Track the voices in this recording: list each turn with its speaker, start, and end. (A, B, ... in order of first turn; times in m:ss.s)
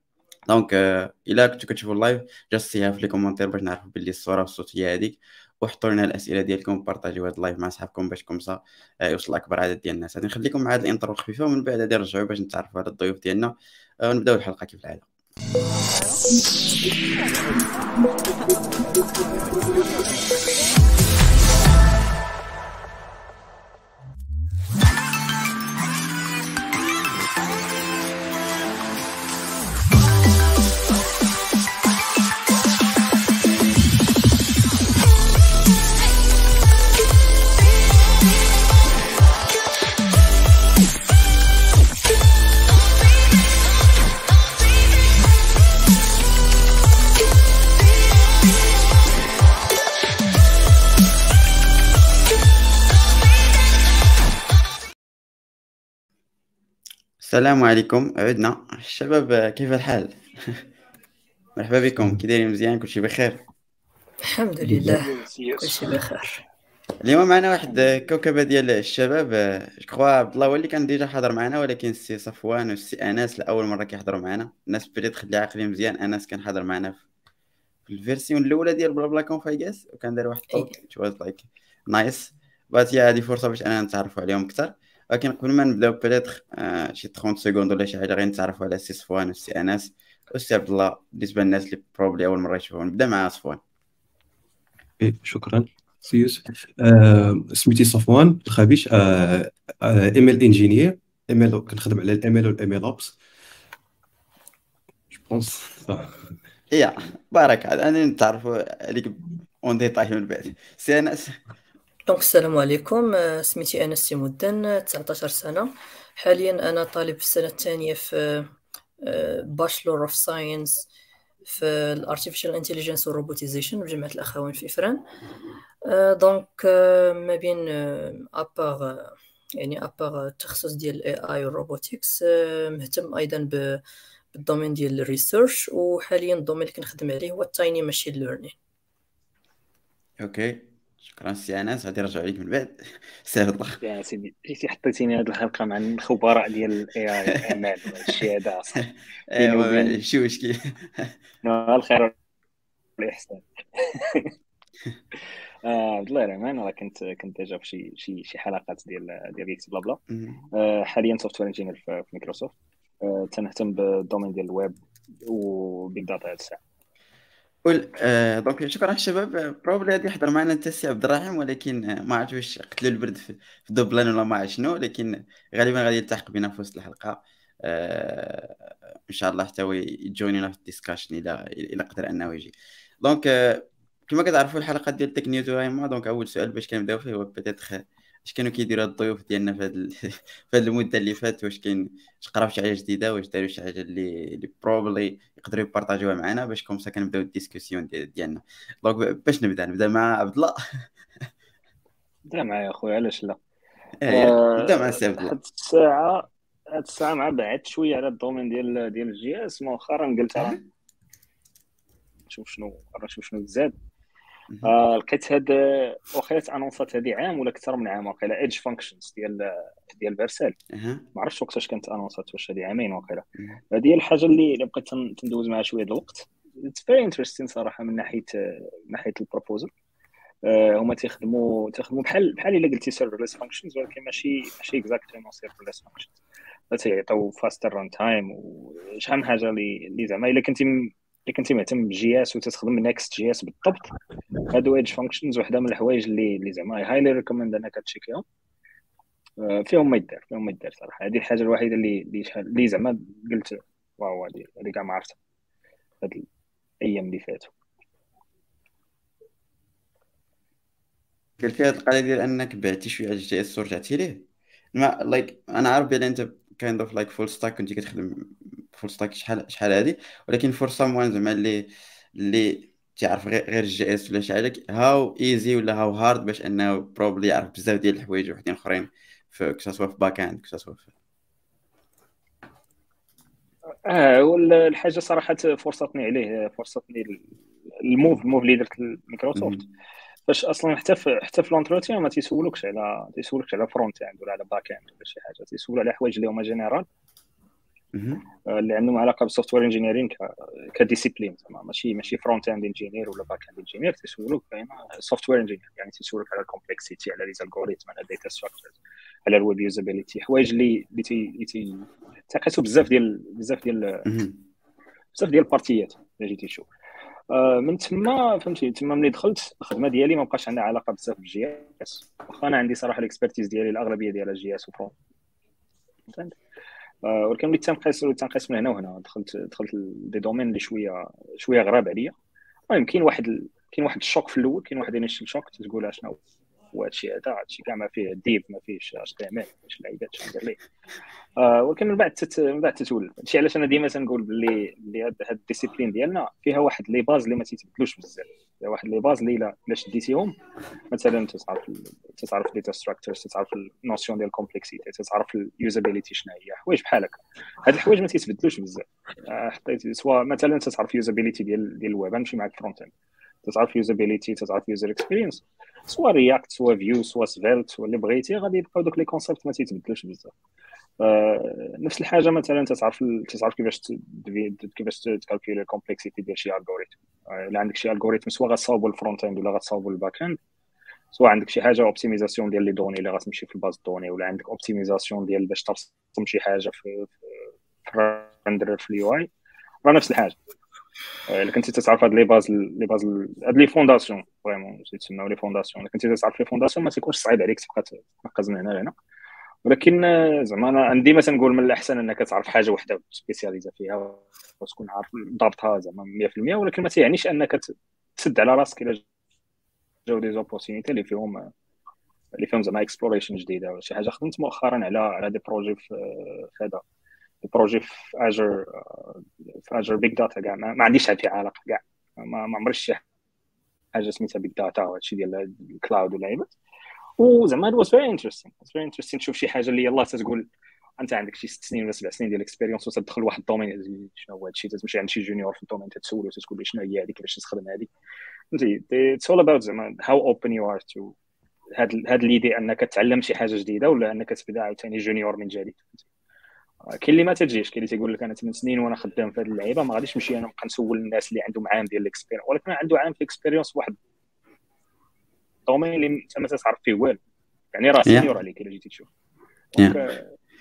0:00.5-0:15.1 A
0:57.2-1:00.6 A
1:01.6-1:03.4 A
1:04.3-1:06.4 B
1:04.7-1:06.0 C
1:07.0-1:17.0 A
1:17.9-1:33.6 A
1:35.0-1:43.2 D
1:45.1-1:46.2 D
1:46.7-1:51.4 A
1:52.1-1:58.5 B
1:59.0-2:00.8 B
2:01.5-2:05.0 B
2:05.8-2:13.8 B
2:14.3-2:18.5 B
2:20.2-2:23.8 A
2:23.8-2:30.0 C
2:29.3-2:31.1 A
2:31.4-2:32.1 C
2:33.0-2:34.3 C
2:35.6-2:40.0 C
2:40.1-2:40.4 A
2:40.5-2:46.6 C
2:47.6-3:02.5 A
3:03.0-3:20.9 A
3:22.3-3:23.4 C
3:24.0-3:25.3 A
3:24.1-3:30.6 C
3:32.3-3:33.7 C
3:34.6-3:40.6 C
3:40.7-3:41.0 A
3:41.1-3:49.7 C
3:50.4-3:56.1 C
3:56.7-4:03.9 C
4:04.5-4:08.2 C
4:09.4-4:15.2 C
4:16.8-4:17.5 C
4:21.4-4:40.9 A
4:43.8-4:47.2 C
4:47.8-4:49.6 C
4:49.4-4:49.6 A
4:50.3-4:56.8 C
4:57.9-4:58.2 A
4:58.4-5:08.7 C
5:09.2-5:14.0 C
5:14.0-5:14.4 A
5:15.1-5:16.7 C
5:17.3-5:24.9 C
5:26.1-5:26.4 C
5:27.0-5:32.1 C
5:32.7-5:36.2 C
5:36.7-5:40.6 C
5:41.4-5:50.4 C
5:50.9-6:02.9 C
6:03.4-6:10.3 C
6:11.0-6:20.4 C
6:21.1-6:27.1 C
6:27.8-6:29.3 C
6:29.8-6:30.4 C
6:31.3-6:38.9 C
6:39.6-6:49.0 C
6:50.1-6:51.5 C
6:52.3-6:56.8 C
6:57.4-7:03.0 C
7:03.9-7:06.5 C
7:07.2-7:10.5 C
7:11.0-7:17.9 C
7:18.5-7:21.1 C
7:21.8-7:26.0 C
7:26.9-7:34.0 C
7:35.7-7:37.2 C
7:37.7-7:39.1 C
7:39.7-7:40.3 C